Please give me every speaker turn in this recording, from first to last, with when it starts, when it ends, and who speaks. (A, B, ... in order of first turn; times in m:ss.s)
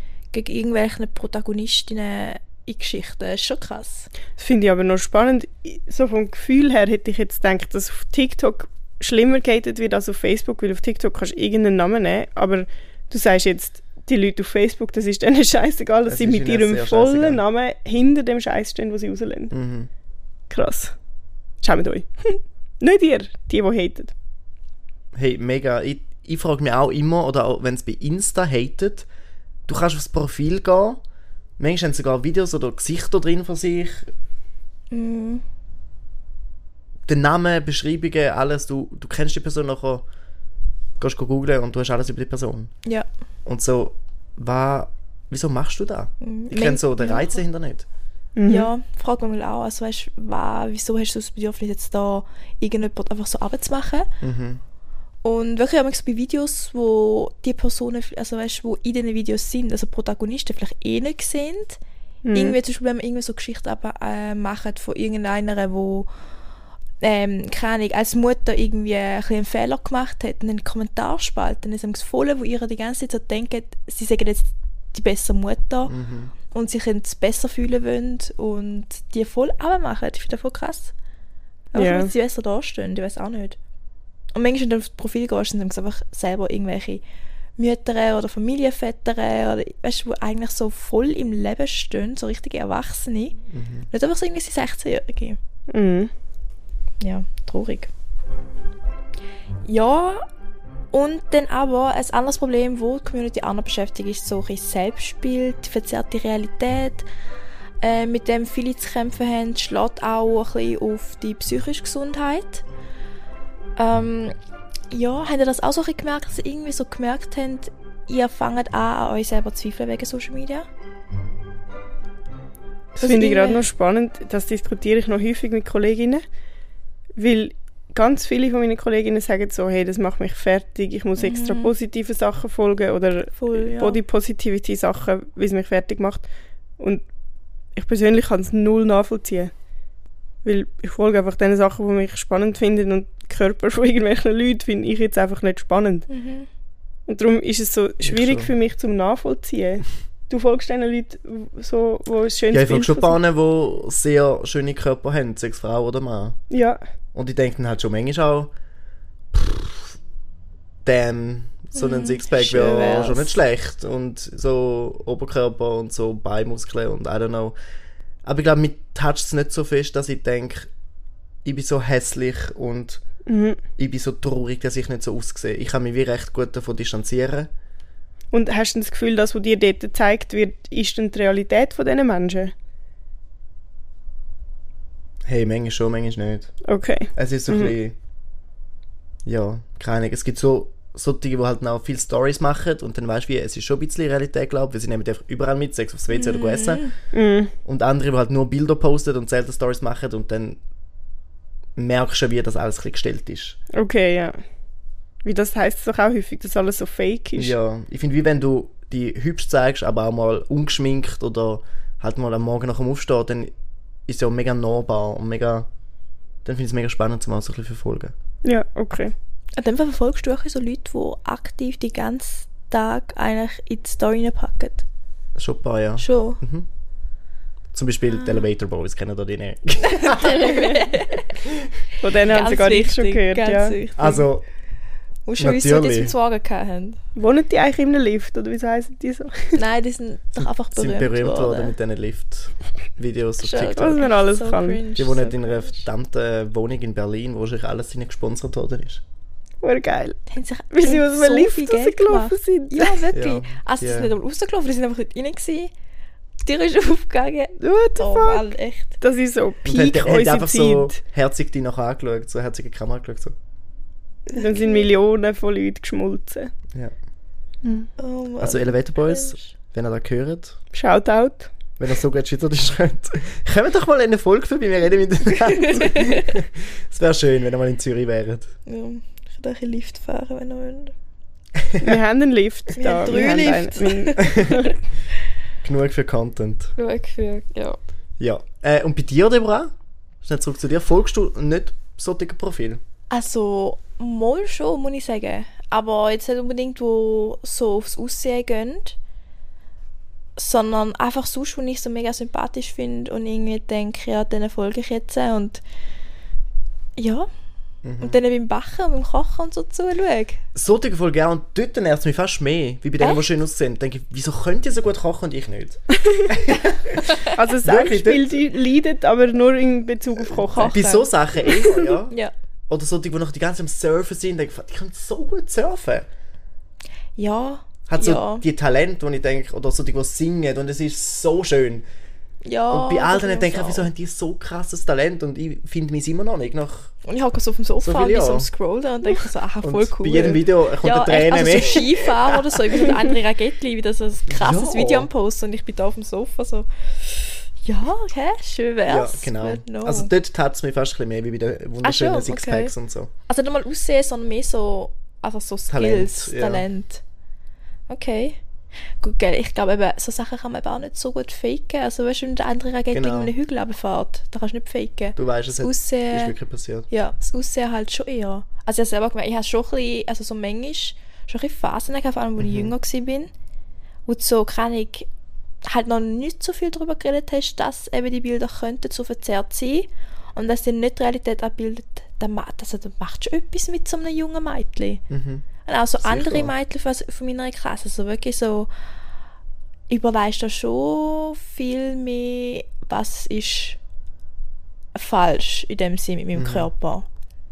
0:00.3-0:04.1 A
0:04.4-0:19.5 B
0:16.0-0:17.4 C
0:19.5-0:19.9 C
0:20.5-0:20.9 B
0:21.6-0:24.1 B
0:25.1-0:29.1 C
0:29.7-0:31.0 C
0:31.6-0:34.1 C
0:34.9-0:35.4 A
0:37.1-0:40.0 C
0:41.0-0:42.7 C
0:43.4-0:47.8 C
0:46.2-0:47.4 A
0:48.4-0:48.7 B
0:48.4-0:54.1 A
0:54.2-0:54.6 C
0:55.2-1:01.8 A
1:02.2-1:02.6 B
1:02.3-1:06.1 A
1:07.0-1:15.9 A
1:15.9-1:16.3 C
1:16.5-1:20.9 A
1:21.7-1:23.6 A
1:21.7-1:22.1 B
1:24.3-1:27.0 A
1:27.6-1:33.4 A
1:33.5-1:33.9 C
1:33.9-1:35.4 A
1:35.7-1:36.1 B
1:37.0-1:37.9 A
1:39.6-1:40.2 A
1:40.9-1:47.0 A
1:47.8-1:52.6 A
1:53.8-1:54.3 A
1:54.9-2:00.7 A
2:03.0-2:06.2 B
2:03.0-2:03.6 A
2:07.2-2:16.2 B
2:11.2-2:11.7 A
2:13.4-2:14.0 A
2:17.7-2:19.5 B
2:20.4-2:26.1 B
2:26.1-2:26.5 A
2:27.1-2:33.2 B
2:28.0-2:28.5 C
2:32.5-2:36.4 C
2:36.5-2:36.8 B
2:37.1-2:38.5 C
2:39.3-2:39.9 C
2:40.8-2:47.5 C
2:41.8-2:43.3 A
2:48.2-2:50.7 C
2:51.4-2:53.0 C
2:53.2-2:53.6 B
2:53.8-2:57.5 C
2:58.3-3:02.5 B
3:05.2-3:06.5 C
3:06.6-3:07.7 B
3:07.1-3:08.0 C
3:09.2-3:16.9 C
3:16.1-3:16.9 A
3:17.1-3:17.5 B
3:17.6-3:20.6 C
3:21.8-3:23.6 C
3:23.7-3:24.4 B
3:25.2-3:27.5 B
3:27.4-3:33.5 C
3:34.1-3:35.7 C
3:36.4-3:38.1 C
3:38.4-3:39.1 B
3:39.6-3:44.8 A
3:45.4-3:46.6 C
3:46.0-3:46.4 A
3:47.7-3:50.8 C
3:49.8-3:51.4 A
3:52.0-3:53.8 B
3:52.2-3:54.3 A
3:54.0-3:54.4 C
3:55.2-3:57.0 A
3:55.4-3:56.1 C
3:57.2-3:59.6 B
3:59.5-4:01.7 A
4:00.4-4:04.0 C
4:03.4-4:05.8 A
4:03.8-4:04.8 B
4:05.0-4:09.0 C
4:09.6-4:10.2 B
4:10.3-4:15.7 A
4:10.7-4:13.0 B
4:13.1-4:14.1 C
4:16.4-4:19.0 A
4:17.6-4:21.0 B
4:19.6-4:23.3 C
4:24.3-4:26.5 B
4:24.3-4:24.8 A
4:27.6-4:27.9 B
4:28.0-4:29.5 A
4:28.4-4:30.6 C
4:30.7-4:31.5 B
4:31.8-4:38.5 C
4:35.6-4:36.2 A
4:38.6-4:40.9 A
4:41.8-4:44.7 B
4:42.8-4:44.7 A
4:45.6-4:46.7 C
4:46.8-4:47.8 A
4:48.2-4:52.8 C
4:53.1-4:59.0 A
5:00.4-5:05.6 A
5:07.0-5:07.3 A
5:07.8-5:08.2 C
5:08.0-5:10.4 A
5:10.5-5:18.4 C
5:17.3-5:20.8 B
5:20.4-5:21.2 A
5:20.6-5:22.1 C
5:22.7-5:26.1 C
5:27.2-5:28.4 A
5:27.9-5:31.8 C
5:32.4-5:33.9 A
5:32.7-5:36.9 C
5:37.0-5:50.1 A
5:37.8-5:38.5 C
5:39.6-5:42.9 C
5:44.3-5:45.1 C
5:48.8-5:53.1 C
5:51.8-5:52.7 A
5:53.3-5:57.0 A
5:55.7-5:56.6 C
5:57.9-5:58.4 A
5:59.0-6:06.3 A
6:02.9-6:03.3 C
6:05.2-6:06.9 C
6:06.9-6:13.3 A
6:12.4-6:12.7 C
6:14.0-6:15.1 A
6:15.6-6:25.0 A
6:25.1-6:25.4 C
6:25.6-6:28.7 A
6:26.0-6:26.5 C
6:29.9-6:33.8 A
6:34.9-6:37.0 A
6:36.3-6:36.7 C